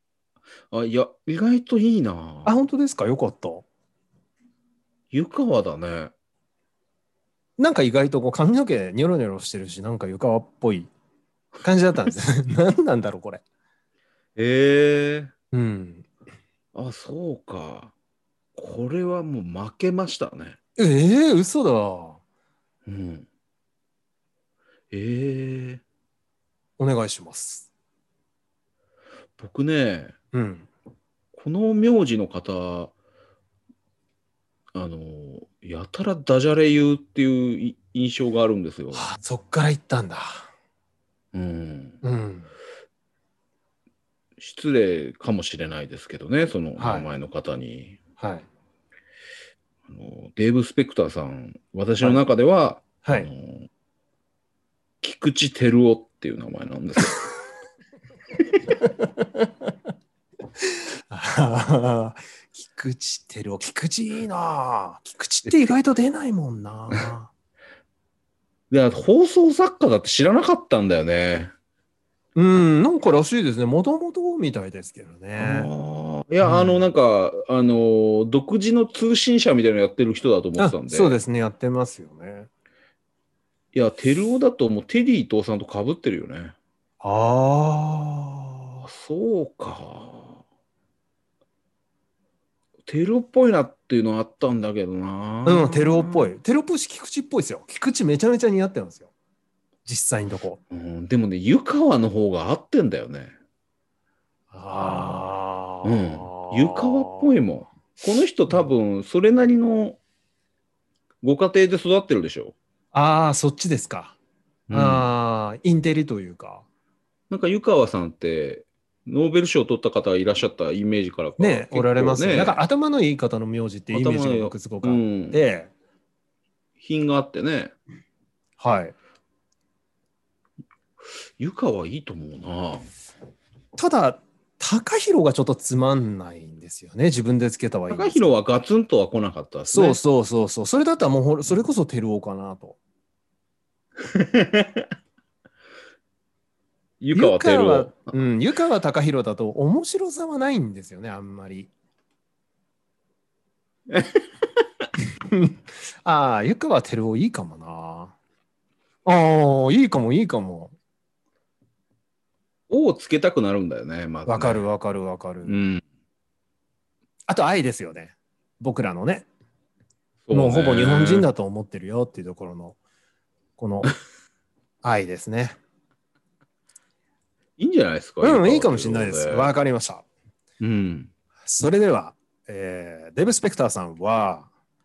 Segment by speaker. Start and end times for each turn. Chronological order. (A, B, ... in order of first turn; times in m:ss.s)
0:00.7-0:02.5 A
0:02.4-0:03.7 B
0:05.1-0:06.1 A
0:07.6-0:10.9 B
0:11.6-0:13.4 B
0:14.4-0:15.3 A
0:15.5-0:16.1 B
0:16.7-0:17.9 A
0:18.6-0:20.6 A
0:20.8-0:22.2 B
0:22.9-0:23.3 A
0:24.9-0:25.8 A
0:26.8-0:27.7 B
0:29.4-0:30.2 A
0:30.3-0:30.7 B
0:31.3-0:32.9 A
0:34.7-0:39.1 A
0:38.9-0:40.5 B
0:41.3-0:42.0 A
0:42.0-0:42.5 B
0:44.4-0:48.0 A
0:46.8-0:47.1 B
0:48.2-0:48.5 B
0:49.9-0:53.7 A
0:53.0-0:53.3 B
0:55.0-0:57.3 A
1:00.6-1:07.3 B
1:05.5-1:05.7 A
1:08.7-1:11.5 A
1:12.4-1:15.7 B
1:15.4-1:21.2 A
1:16.4-1:16.9 B
1:20.6-1:22.5 B
1:23.7-1:26.6 A
1:27.0-1:28.8 B
1:28.8-1:30.4 A
1:32.9-1:36.4 A
1:35.5-1:39.1 B
1:39.8-1:40.6 B
1:40.7-1:43.4 A
1:44.5-1:47.4 B
1:44.8-1:45.2 A
1:45.8-1:50.0 A
1:51.2-1:52.6 A
1:52.9-1:54.2 B
1:54.7-1:55.1 A
1:54.7-1:56.6 B
1:57.3-2:02.6 A
2:01.4-2:05.7 B
2:03.9-2:05.4 A
2:06.8-2:07.8 A
2:08.6-2:09.0 B
2:11.4-2:12.9 A
2:13.8-2:18.2 B
2:17.9-2:20.0 A
2:19.7-2:22.8 B
2:24.1-2:24.9 A
2:27.0-2:28.2 A
2:27.1-2:31.7 B
2:33.9-2:34.2 A
2:35.3-2:38.1 B
2:39.0-2:40.8 B
2:42.7-2:44.7 A
2:44.3-2:45.6 B
2:45.4-2:45.8 A
2:47.3-2:49.3 B
2:50.2-2:51.3 A
2:50.3-2:52.8 B
2:53.6-2:53.9 B
2:54.8-2:55.6 B
2:57.6-2:59.5 A
2:58.2-3:00.0 B
3:00.6-3:01.1 A
3:01.5-3:04.5 B